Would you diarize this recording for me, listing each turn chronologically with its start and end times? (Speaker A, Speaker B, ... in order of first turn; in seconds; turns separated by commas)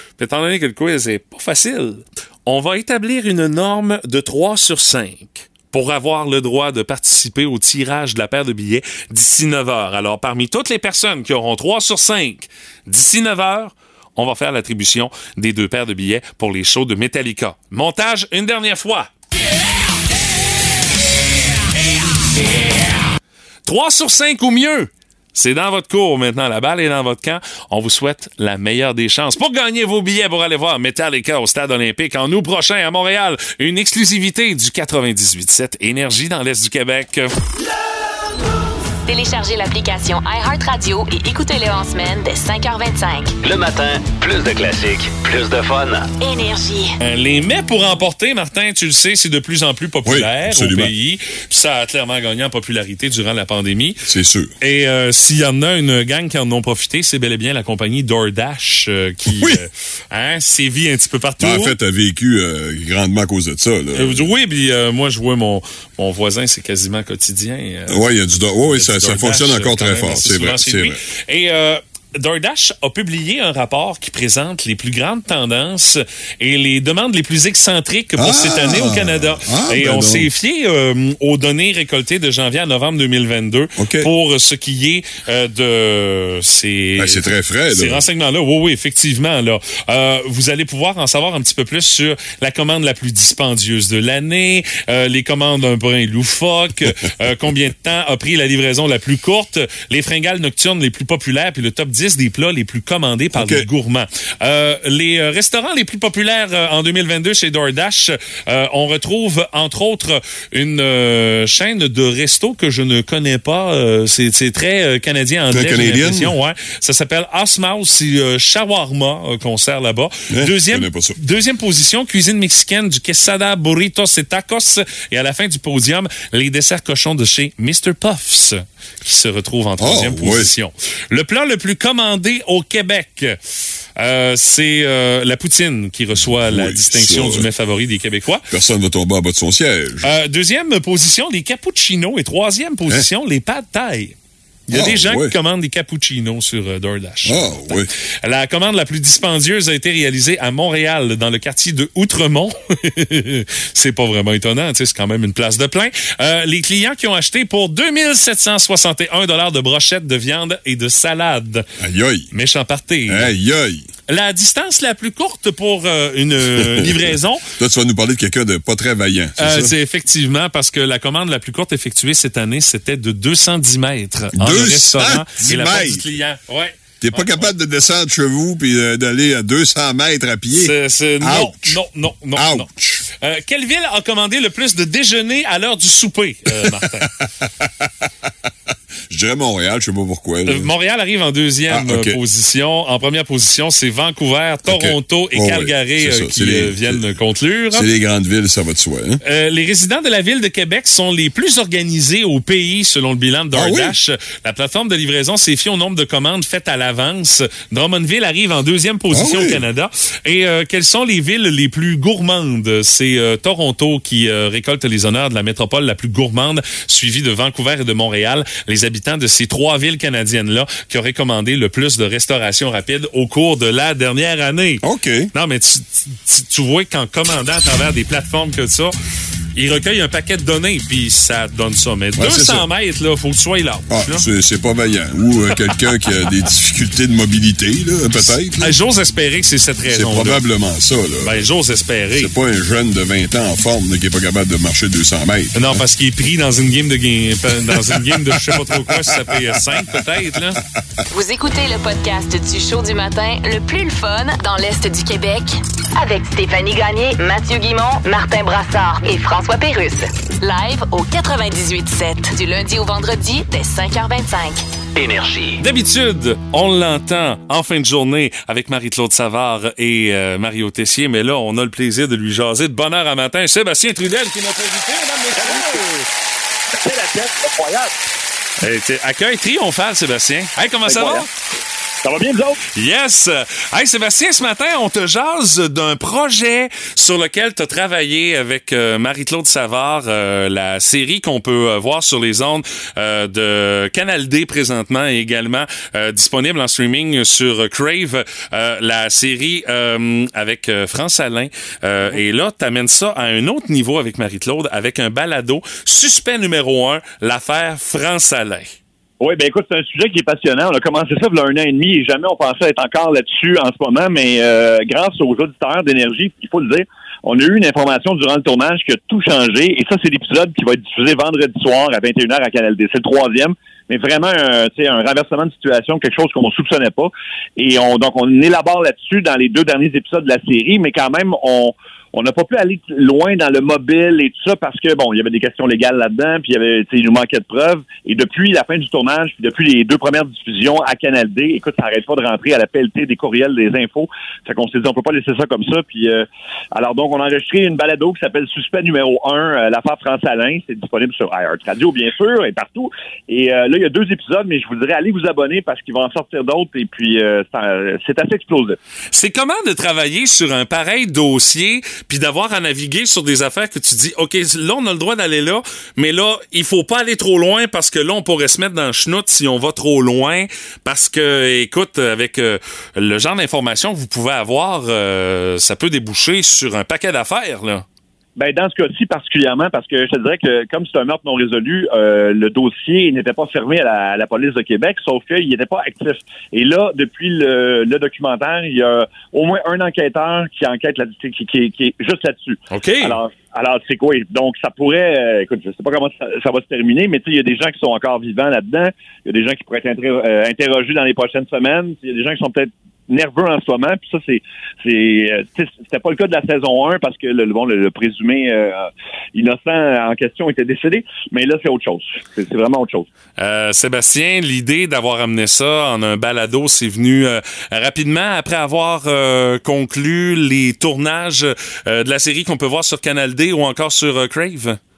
Speaker A: 0.2-19.1, Speaker A: 23.7-37.3, Speaker B: 39.1-43.4, Speaker C: 43.4-46.1, Speaker B: 46.2-47.0, Speaker A: 47.0-54.0, Speaker D: 50.1-50.9, Speaker D: 54.1-54.5, Speaker A: 54.6-61.8, Speaker D: 59.3-59.6, Speaker D: 61.4-64.3, Speaker A: 63.9-68.1, Speaker D: 67.9-71.0, Speaker A: 68.7-133.4, Speaker D: 78.2-80.3, Speaker D: 83.8-84.1, Speaker D: 87.0-88.0, Speaker D: 103.3-103.7, Speaker D: 115.5-116.3, Speaker D: 120.3-121.2, Speaker D: 129.8-130.5, Speaker A: 134.0-138.4, Speaker D: 136.2-137.5, Speaker D: 138.5-140.1, Speaker A: 140.0-144.2, Speaker A: 144.7-161.7, Speaker D: 144.7-145.3, Speaker D: 147.2-147.9, Speaker D: 161.8-162.3, Speaker A: 162.3-163.3, Speaker D: 163.1-163.9, Speaker A: 164.1-167.4, Speaker D: 166.6-166.9, Speaker D: 167.6-169.7, Speaker A: 169.4-177.5, Speaker D: 174.4-176.0, Speaker D: 177.0-181.8, Speaker A: 180.6-187.1, Speaker D: 182.3-183.1, Speaker D: 187.2-187.9, Speaker D: 189.1-190.7, Speaker A: 190.5-197.9, Speaker D: 191.7-192.2, Speaker D: 194.7-197.1, Speaker D: 197.7-199.2, Speaker A: 199.2-228.9, Speaker D: 203.5-203.9, Speaker D: 209.1-209.6, Speaker D: 224.8-225.3, Speaker A: 229.6-234.3, Speaker D: 232.2-232.7, Speaker D: 233.9-238.7, Speaker A: 238.2-240.4, Speaker D: 239.9-241.4, Speaker A: 241.2-242.3, Speaker D: 242.1-245.8, Speaker A: 245.6-250.6, Speaker D: 247.8-250.0, Speaker B: 251.1-264.6, Speaker C: 264.9-265.6, Speaker A: 265.6-276.0, Speaker E: 275.4-275.8, Speaker E: 276.8-277.9, Speaker A: 278.6-281.3, Speaker E: 280.9-281.3, Speaker E: 282.0-282.6, Speaker A: 282.8-308.8, Speaker E: 309.2-358.8, Speaker A: 359.1-377.9, Speaker E: 378.4-413.1, Speaker A: 392.7-393.2, Speaker A: 413.4-424.8